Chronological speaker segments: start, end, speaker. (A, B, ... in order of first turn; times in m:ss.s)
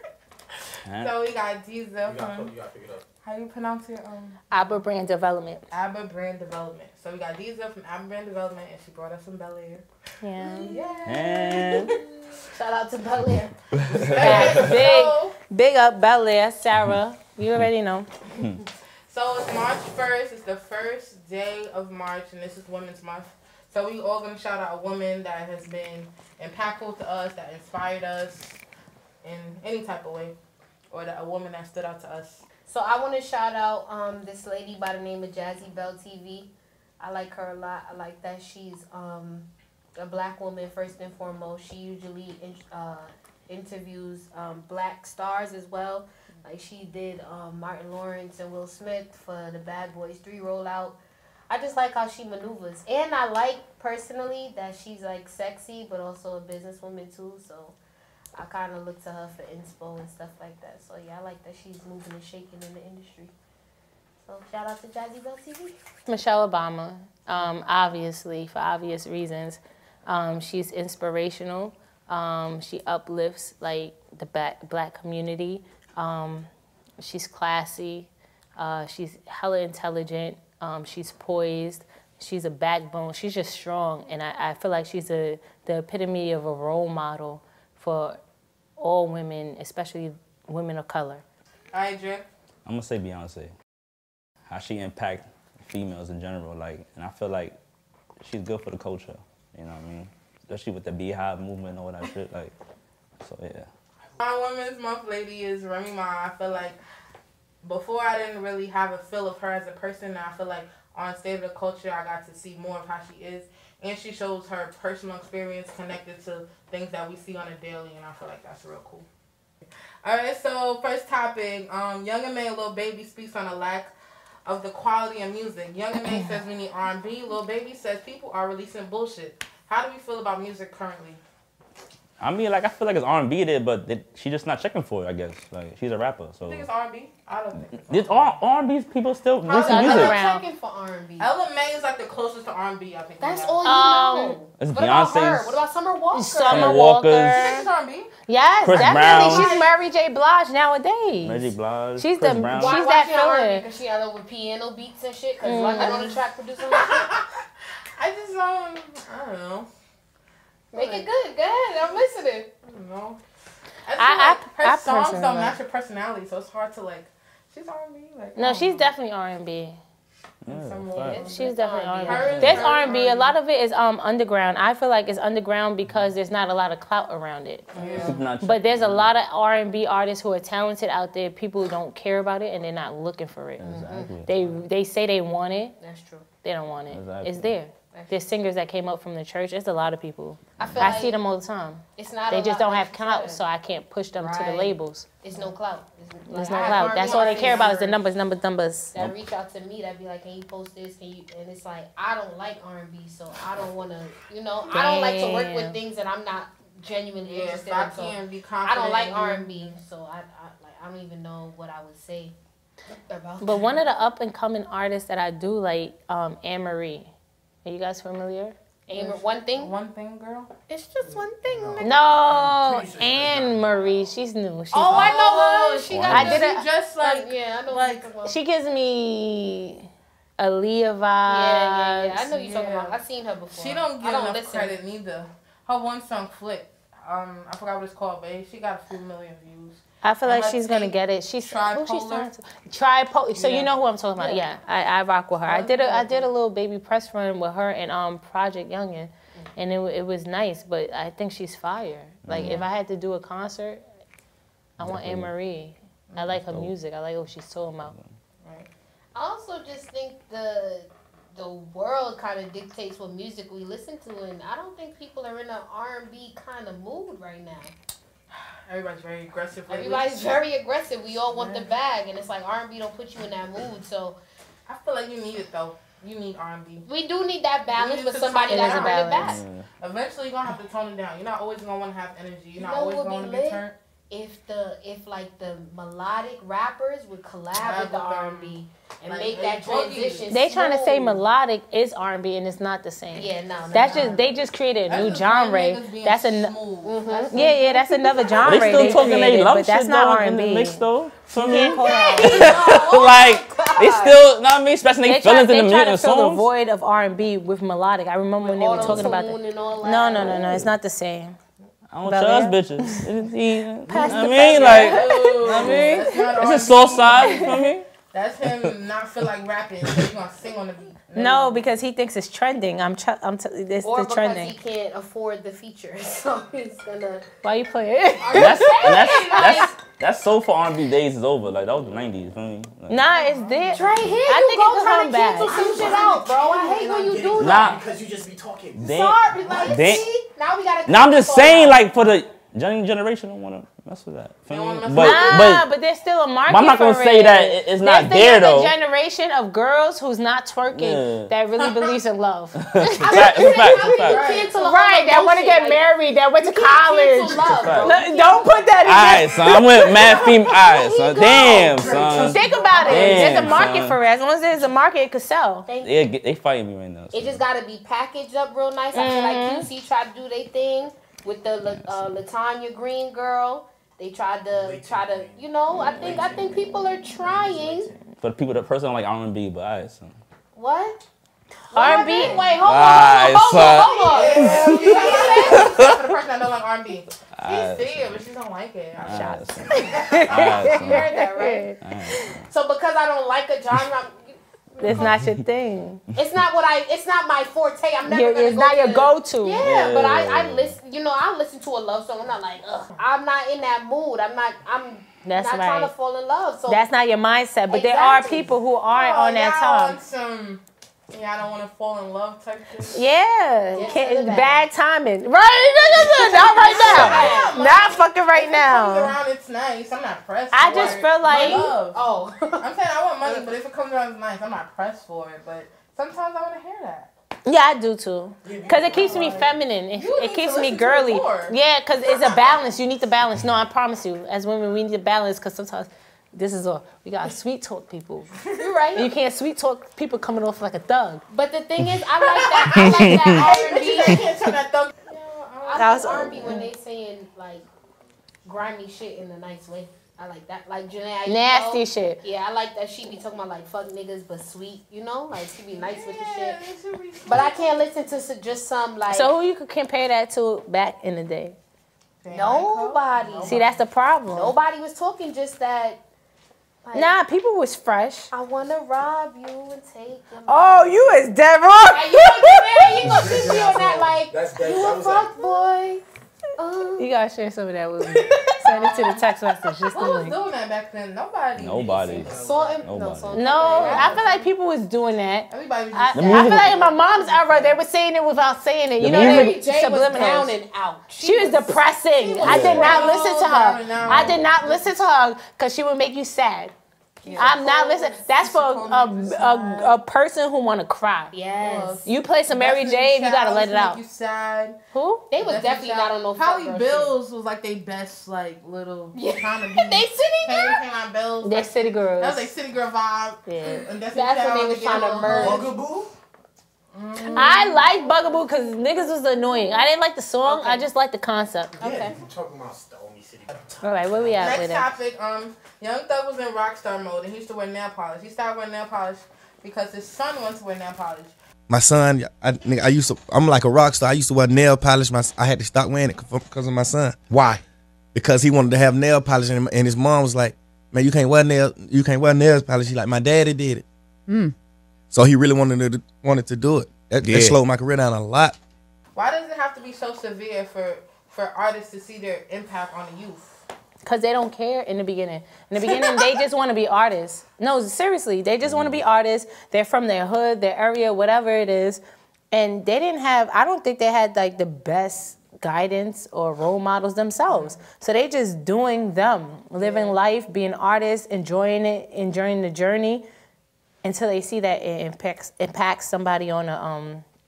0:00.8-0:01.1 A
0:01.0-0:02.5 B
0:02.0-0:03.0 C
0:03.2-0:04.6 B
0:04.5-0:05.6 D
0:05.7-0:09.8 B
0:10.2-0:10.7 D
0:10.4-0:12.1 B
0:10.7-0:11.1 E
0:11.0-0:11.9 A
0:12.5-0:13.5 E
0:13.8-0:15.4 B
0:14.2-0:18.1 D
0:14.2-0:14.7 E
0:19.1-0:28.6 B
0:29.2-0:30.4 B
0:30.9-0:32.4 B
0:32.6-0:51.0 E
0:51.5-0:57.7 E
0:58.4-1:03.3 E
1:04.2-1:05.8 E
1:06.1-1:16.5 D
1:17.0-1:28.2 D
1:28.8-1:31.2 D
1:31.7-1:32.2 B
1:32.6-1:33.5 A
1:34.5-1:37.5 A
1:38.2-1:42.5 A
1:43.2-1:43.7 A
1:44.2-1:46.8 B
1:47.6-1:59.0 B
2:00.0-2:03.9 B
2:04.4-2:11.2 B
2:12.2-2:16.6 A
2:16.4-2:18.3 B
2:17.7-2:20.1 A
2:19.4-2:20.2 B
2:19.5-2:20.4 D
2:19.8-2:21.3 E
2:21.2-2:23.6 B
2:23.2-2:26.8 E
2:23.6-2:24.4 D
2:24.6-2:25.6 A
2:26.1-2:27.7 D
2:26.5-2:27.5 A
2:27.3-2:28.1 B
2:28.3-2:33.6 D
2:28.6-2:29.5 A
2:28.7-2:29.7 B
2:31.2-2:32.8 A
2:32.5-2:37.2 E
2:35.4-2:36.1 D
2:35.8-2:37.4 B
2:38.0-2:39.7 B
2:40.7-2:41.1 B
2:40.7-2:42.5 E
2:42.6-2:43.2 B
2:43.9-2:48.9 B
2:44.0-2:45.6 D
2:48.4-2:49.8 D
2:50.4-2:51.3 A
2:50.5-2:51.4 B
2:51.0-2:52.9 E
2:51.1-2:57.7 D
2:52.0-2:53.3 B
2:52.2-2:52.6 A
2:57.7-2:58.2 B
2:57.8-2:58.1 E
2:57.9-2:59.1 A
2:58.4-3:03.6 D
3:03.6-3:04.6 A
3:03.6-3:04.1 E
3:04.2-3:05.8 D
3:05.8-3:06.2 E
3:06.4-3:15.1 D
3:06.9-3:07.5 A
3:07.9-3:08.2 E
3:10.6-3:11.2 E
3:10.6-3:10.9 A
3:12.0-3:13.4 E
3:14.2-3:18.0 E
3:16.3-3:19.0 D
3:16.6-3:17.7 B
3:18.9-3:32.3 E
3:24.7-3:25.8 D
3:27.2-3:29.7 B
3:33.1-3:33.8 E
3:33.4-3:37.1 D
3:37.6-3:38.6 D
3:38.9-3:39.7 E
3:38.9-3:40.5 B
3:40.7-3:42.0 E
3:41.4-3:43.7 C
3:41.8-3:45.1 D
3:44.7-3:48.4 E
3:44.8-3:48.1 B
3:45.9-3:46.4 A
3:46.1-3:46.6 D
3:48.2-3:49.8 D
3:50.4-3:52.2 D
3:51.3-3:54.7 E
3:52.3-3:52.9 B
3:53.5-4:02.3 B
4:00.0-4:13.8 D
4:03.4-4:04.4 B
4:05.4-4:06.3 B
4:12.2-4:12.6 A
4:12.3-4:12.6 E
4:14.8-4:15.3 A
4:14.8-4:17.9 D
4:16.1-4:16.4 B
4:16.4-4:16.7 A
4:18.4-4:18.7 B
4:19.1-4:27.7 E
4:28.3-4:30.2 B
4:29.7-4:34.2 E
4:31.2-4:31.7 B
4:34.7-4:36.8 B
4:36.8-4:39.4 E
4:37.7-4:39.2 B
4:38.5-4:39.4 D
4:39.2-4:39.6 A
4:39.8-4:43.8 B
4:42.6-4:51.2 E
4:47.5-4:50.3 B
4:50.3-4:56.6 D
4:53.1-4:54.2 E
4:53.7-4:54.2 B
4:54.9-4:59.0 B
4:56.8-4:59.2 E
4:57.3-5:00.8 D
4:58.4-5:06.5 A
5:01.3-5:02.6 D
5:01.4-5:04.2 E
5:05.0-5:11.3 D
5:08.4-5:10.7 E
5:08.8-5:09.1 A
5:11.9-5:17.8 A
5:12.0-5:13.0 D
5:13.9-5:16.3 D
5:13.9-5:21.7 B
5:17.1-5:17.5 D
5:21.1-5:24.6 D
5:23.8-5:27.2 E
5:27.4-5:29.7 D
5:28.2-5:29.1 B
5:28.3-5:29.8 E
5:28.3-5:33.0 A
5:32.9-5:35.5 D
5:33.1-5:33.9 B
5:33.7-5:37.8 E
5:35.4-5:40.0 C
5:35.5-5:36.2 B
5:37.4-5:37.8 A
5:38.8-5:41.8 E
5:38.8-5:40.1 A
5:40.8-5:45.7 A
5:44.5-5:45.6 B
5:44.9-5:53.3 D
5:46.5-5:48.7 A
5:50.7-5:51.3 A
5:51.6-5:52.0 B
5:52.6-5:54.2 A
5:53.0-5:58.5 E
5:53.9-5:54.5 B
5:54.6-6:00.3 D
5:57.3-5:57.9 A
5:58.8-6:04.0 A
5:59.8-6:03.6 E
6:01.6-6:02.5 C
6:02.2-6:03.4 B
6:02.2-6:05.7 D
6:05.7-6:06.0 E
6:05.8-6:07.4 A
6:07.1-6:17.9 E
6:08.9-6:09.7 D
6:14.5-6:18.0 C
6:18.2-6:20.2 A
6:20.5-6:21.0 E
6:21.7-6:25.9 E
6:21.7-6:22.4 D
6:21.8-6:22.5 B
6:22.6-6:26.0 A
6:23.5-6:30.8 B
6:27.3-6:28.2 A
6:29.0-6:31.1 A
6:29.1-6:31.8 D
6:30.2-6:31.7 E
6:31.8-6:32.4 A
6:32.5-6:35.1 E
6:34.8-6:36.0 D
6:34.9-6:35.3 A
6:36.2-6:46.8 E
6:38.1-6:39.6 D
6:39.6-6:40.7 A
6:45.2-6:45.9 D
6:46.7-6:50.0 D
6:47.7-6:48.5 E
6:48.9-6:53.0 B
6:52.9-6:59.1 D
6:53.7-6:54.6 E
6:55.9-6:57.6 E
6:56.3-7:02.0 B
7:00.5-7:01.7 D
7:00.7-7:02.7 E
7:02.6-7:07.1 B
7:03.2-7:03.5 E
7:07.4-7:18.3 D
7:08.4-7:09.2 C
7:08.7-7:11.6 B
7:12.1-7:12.4 B
7:18.6-7:19.1 E
7:19.0-7:21.2 D
7:21.3-7:24.3 E
7:22.5-7:26.6 B
7:25.6-7:27.6 E
7:25.8-7:26.6 D
7:28.4-7:36.6 E
7:31.3-7:32.2 D
7:35.7-7:37.9 B
7:37.2-7:39.3 E
7:39.1-7:41.6 D
7:42.2-7:43.8 B
7:42.3-7:43.6 E
7:43.4-7:44.6 D
7:44.3-7:46.0 E
7:46.8-7:47.1 E
7:46.9-7:48.3 D
7:48.3-7:51.2 E
7:50.5-7:52.9 D
7:51.8-7:56.0 E
7:53.0-7:55.3 C
7:56.6-7:57.1 E
7:57.0-8:00.4 D
7:58.6-7:59.2 E
7:59.9-8:02.4 B
8:01.6-8:03.6 A
8:02.2-8:02.8 C
8:02.3-8:04.3 E
8:03.3-8:10.5 D
8:03.6-8:04.5 B
8:05.5-8:07.8 B
8:06.1-8:06.8 A
8:09.0-8:09.6 A
8:09.0-8:13.1 E
8:11.2-8:16.7 D
8:12.4-8:14.9 B
8:12.4-8:12.8 A
8:17.2-8:18.0 E
8:17.2-8:19.9 B
8:17.4-8:21.3 D
8:21.3-8:22.0 E
8:21.6-8:24.8 B
8:22.0-8:24.0 D
8:24.9-8:25.2 D
8:25.3-8:27.2 E
8:25.4-8:35.7 B
8:29.1-8:30.8 E
8:31.4-8:32.5 D
8:33.5-8:33.8 D
8:34.1-8:35.7 E
8:35.3-8:36.1 C
8:36.9-8:38.0 B
8:37.1-8:39.7 E
8:37.3-8:41.8 D
8:40.4-8:40.8 E
8:41.8-8:42.1 E
8:41.8-8:44.6 C
8:43.8-8:44.9 D
8:44.4-8:51.3 B
8:51.7-8:57.2 F
8:58.1-9:03.8 F
9:05.1-9:08.6 F
9:07.3-9:07.5 C
9:09.1-9:13.5 B
9:14.0-9:22.0 D
9:15.8-9:16.4 E
9:18.6-9:19.0 A
9:22.5-9:33.2 D
9:27.4-9:27.8 B
9:29.8-9:30.2 B
9:34.0-9:37.2 D